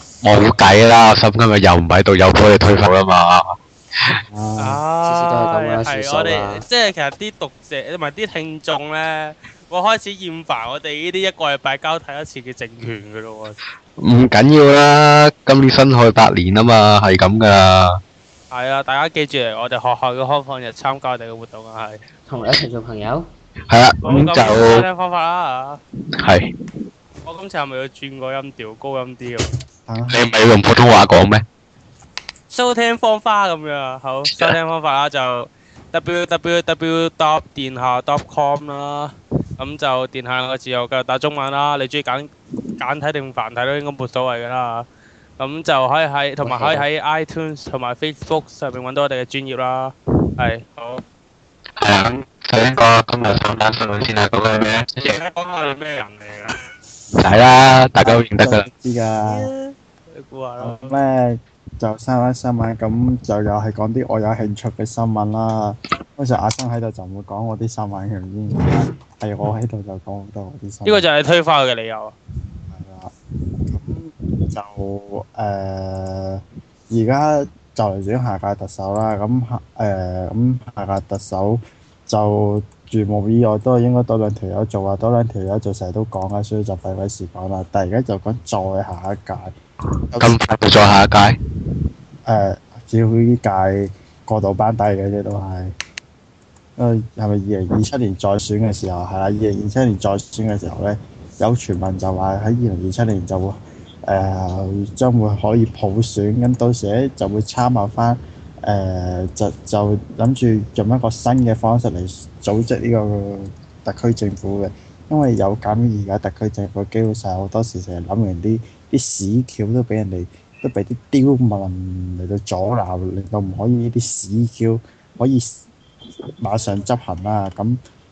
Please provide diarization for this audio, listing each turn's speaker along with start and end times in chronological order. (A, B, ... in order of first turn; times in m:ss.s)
0:00.2-0:04.2 A
0:04.3-0:04.8 B
0:04.6-0:13.6 C
0:05.0-0:06.6 D
0:14.0-0:18.0 A
0:18.5-0:22.0 C
0:22.3-0:23.3 D
0:23.7-0:24.9 A
0:24.0-0:25.8 C
0:26.2-0:26.5 A
0:27.2-0:29.6 C
0:29.9-0:30.3 B
0:30.1-0:31.4 A
0:32.5-0:44.9 C
0:34.3-0:34.6 A
0:45.4-0:51.0 C
0:46.4-0:46.9 D
0:51.8-0:55.2 A
0:55.0-0:56.6 C
0:57.1-0:58.7 A
0:58.0-0:59.5 B
0:59.2-1:01.0 C
1:00.6-1:11.1 B
1:10.8-1:12.2 C
1:12.7-1:13.1 B
1:13.7-1:29.6 B
1:30.1-1:30.4 B
1:30.2-1:31.4 A
1:32.3-1:35.7 B
1:36.8-2:05.6 B
2:06.4-2:07.8 B